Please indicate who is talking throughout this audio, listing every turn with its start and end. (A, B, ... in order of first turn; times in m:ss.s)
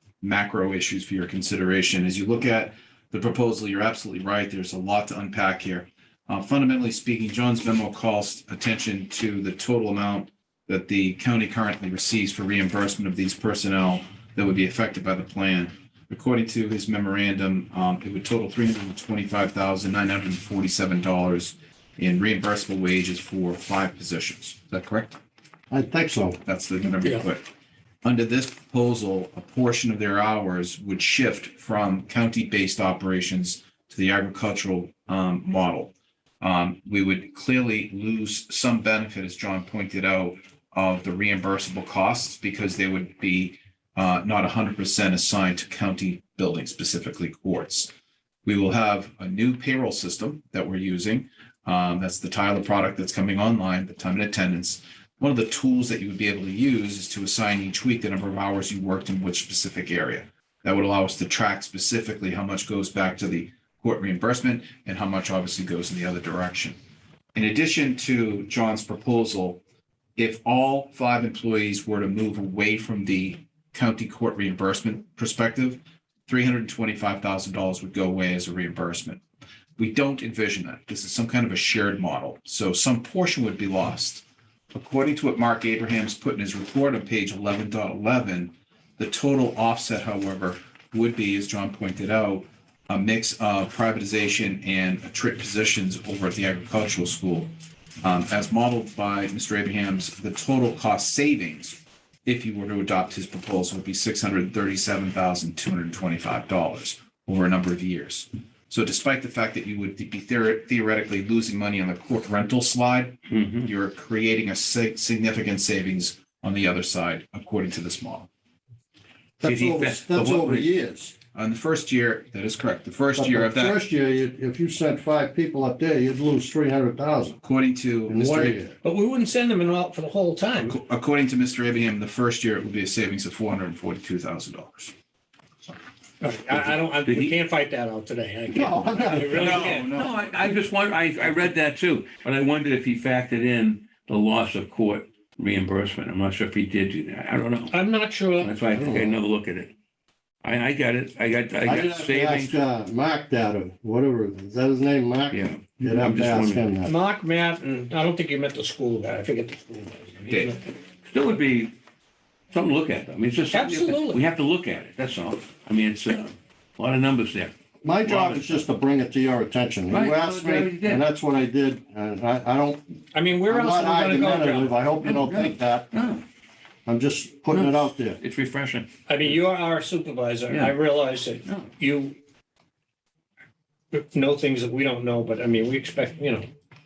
0:00.2-0:25.2 A
0:25.7-0:26.4 B
0:26.4-0:27.5 A
0:28.0-0:47.9 A
0:48.4-1:06.8 A
1:07.3-1:09.6 A
1:10.2-1:19.2 A
1:19.8-1:58.3 A
1:53.3-1:53.7 C
1:59.4-2:01.1 B
1:59.4-2:00.7 C
2:01.3-2:03.8 A
2:03.1-2:07.4 B
2:07.4-2:08.6 A
2:08.1-2:08.8 B
2:08.8-2:10.8 D
2:10.6-2:14.9 A
2:16.2-2:19.9 D
2:17.0-2:17.3 C
2:18.5-2:19.5 B
2:19.3-2:20.5 A
2:19.5-2:27.7 C
2:27.7-2:29.0 D
2:28.4-2:29.7 C
2:28.8-2:29.2 B
2:30.4-2:32.6 C
2:31.6-2:36.9 B
2:35.3-2:36.7 C
2:36.8-2:40.7 D
2:40.3-2:40.6 A
2:41.1-2:41.7 C
2:42.5-2:48.6 C
2:43.5-2:44.2 D
2:47.8-2:52.8 B
2:49.9-2:51.0 C
2:53.1-2:54.8 D
2:53.5-2:55.9 B
2:55.0-2:56.2 C
2:56.8-2:58.2 B
2:57.5-2:59.3 C
2:59.1-3:02.2 D
3:00.5-3:00.7 C
3:03.9-3:06.5 D